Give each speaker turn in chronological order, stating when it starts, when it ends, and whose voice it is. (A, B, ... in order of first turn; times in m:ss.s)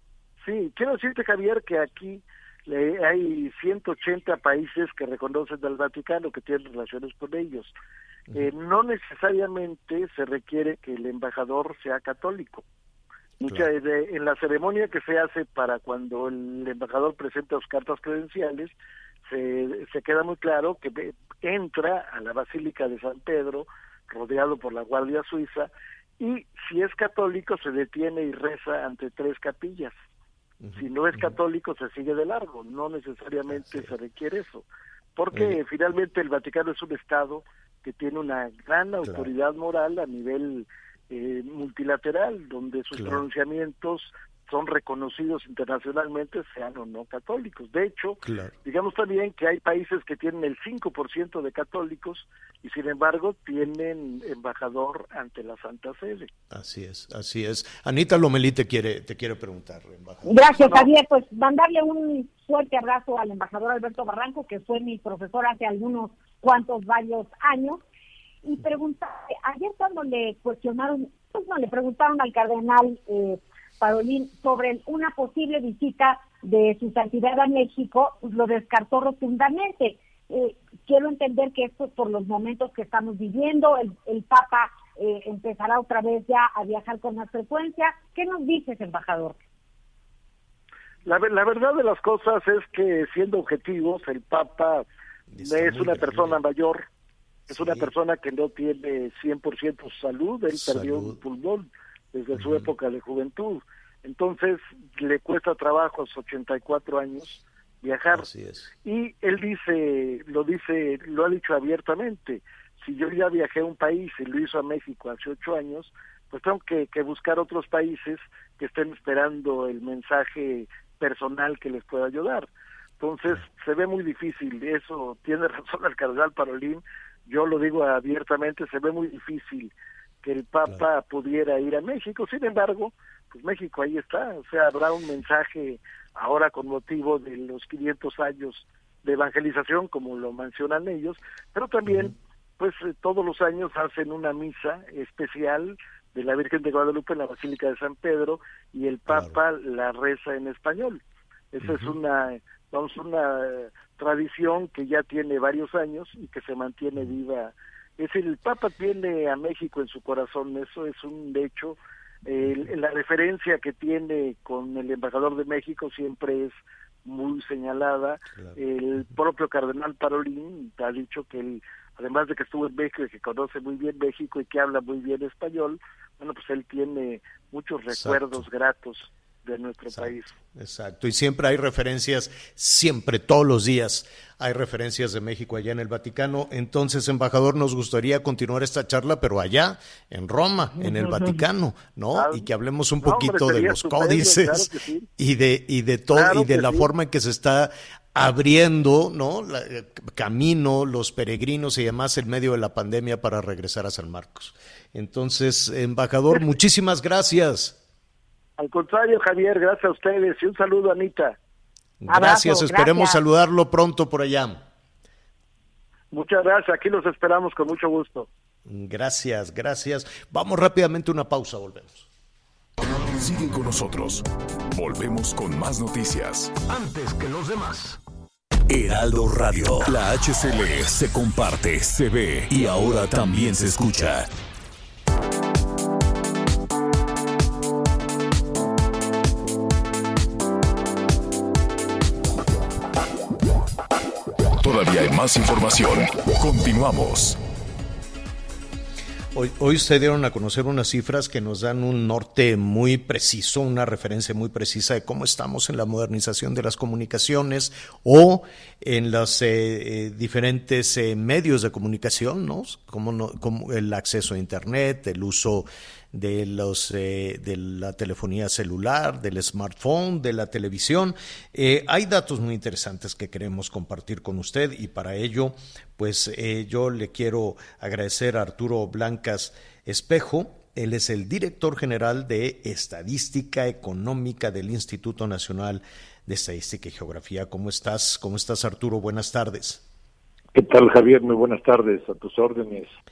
0:00.4-0:07.7 A
0:08.3-0:12.6 A
0:13.4-0:18.7 A
0:19.2-0:29.9 A
0:30.6-0:31.3 B
0:30.7-0:56.3 A
0:33.5-0:33.8 B
0:39.0-0:39.3 B
0:43.0-0:43.2 B
0:48.2-0:48.5 B
0:56.5-1:00.9 B
1:00.2-1:07.8 C
1:08.4-1:29.4 C
1:31.0-1:34.8 A
1:35.3-1:36.4 B
1:35.4-1:36.8 A
1:37.5-1:37.9 B
1:37.5-1:48.3 A
1:40.6-1:41.2 B
1:42.4-1:42.7 B
1:48.1-1:48.7 B
1:48.8-2:09.7 A
2:10.2-2:31.0 A
2:29.1-2:29.4 B
2:31.5-3:00.4 A
2:31.6-2:32.0 B
2:57.9-2:58.4 B
2:59.9-3:27.8 B
3:12.1-3:12.5 A
3:13.0-3:15.1 A
3:16.1-3:16.9 A
3:28.6-3:31.4 A
3:32.0-3:34.6 B
3:32.1-3:33.2 C
3:36.1-3:38.3 A
3:38.6-3:42.0 B
3:43.1-3:48.0 D
3:48.7-3:54.3 D
4:04.6-4:07.4 D
4:09.3-4:49.8 B
4:50.5-4:52.9 E